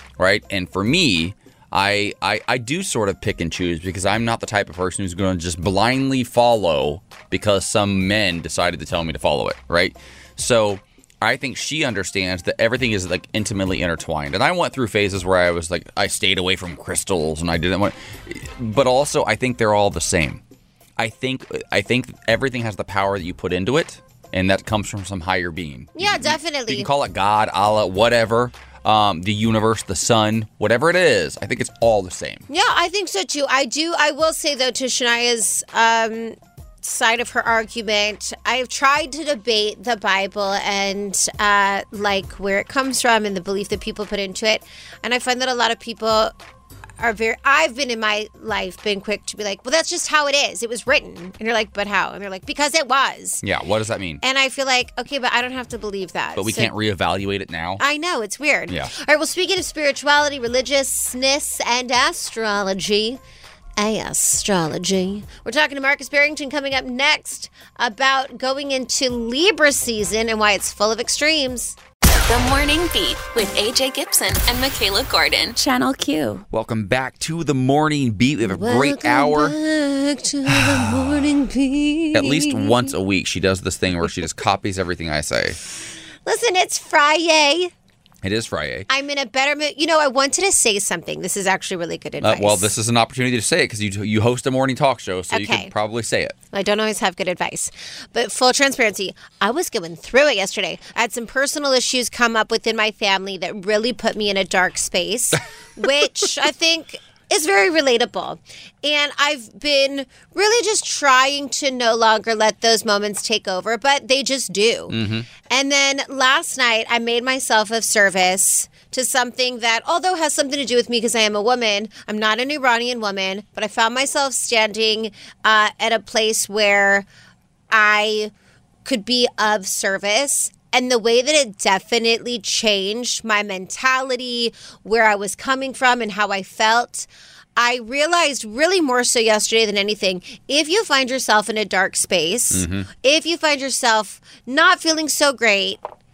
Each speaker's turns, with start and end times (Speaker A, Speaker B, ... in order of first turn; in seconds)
Speaker A: 0.2-20.4, 21.0-32.5, 53.4-54.2, 56.4-57.8, 76.5-79.5, 80.5-81.3, 82.1-85.6, 88.2-88.9, 92.2-96.4, 114.9-115.3, 142.5-142.9
Speaker B: 26.0-26.9, 32.5-46.3, 47.0-53.4, 54.2-56.7, 57.8-63.2, 63.8-71.8, 78.5-82.9, 86.3-87.7, 88.9-92.7, 95.3-95.7, 96.5-115.0, 115.5-127.1, 127.7-128.3, 128.8-145.8
Speaker C: 72.3-76.4